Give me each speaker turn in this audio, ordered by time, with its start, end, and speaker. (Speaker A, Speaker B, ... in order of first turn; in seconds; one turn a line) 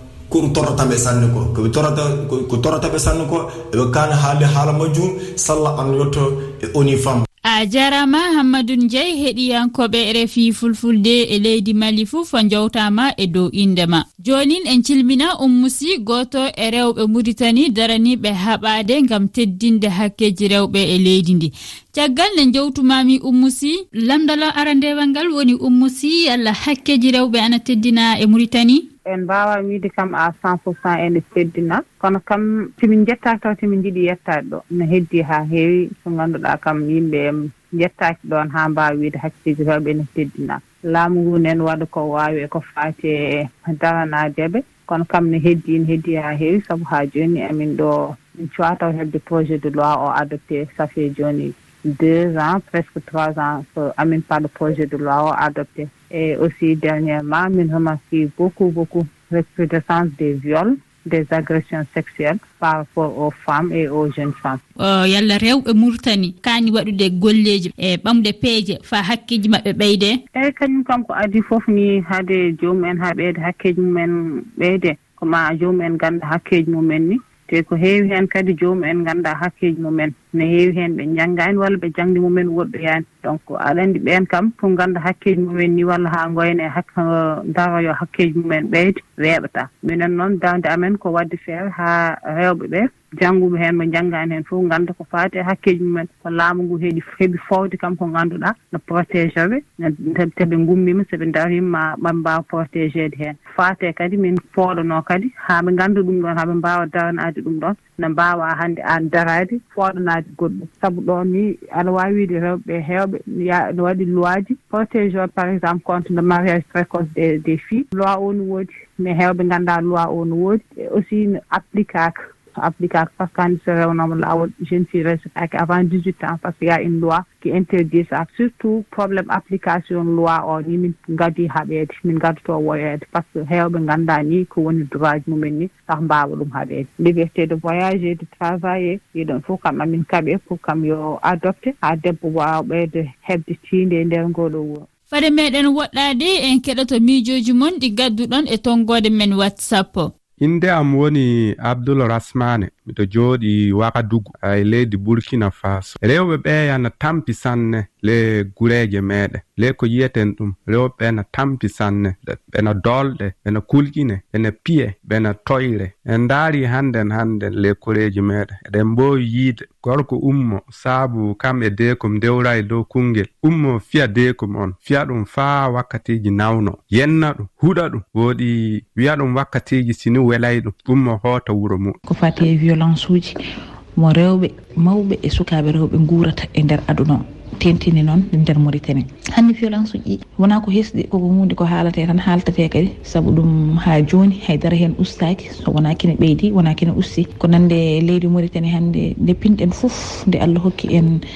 Speaker A: 0.3-7.3
Speaker B: 7.5-28.8
Speaker C: 29.1-64.6
Speaker B: 64.8-70.2
Speaker C: 70.3-144.9
Speaker B: 145.1-150.1
Speaker D: 150.4-182.0
Speaker E: 182.1-183.3
Speaker E: 184.0-201.2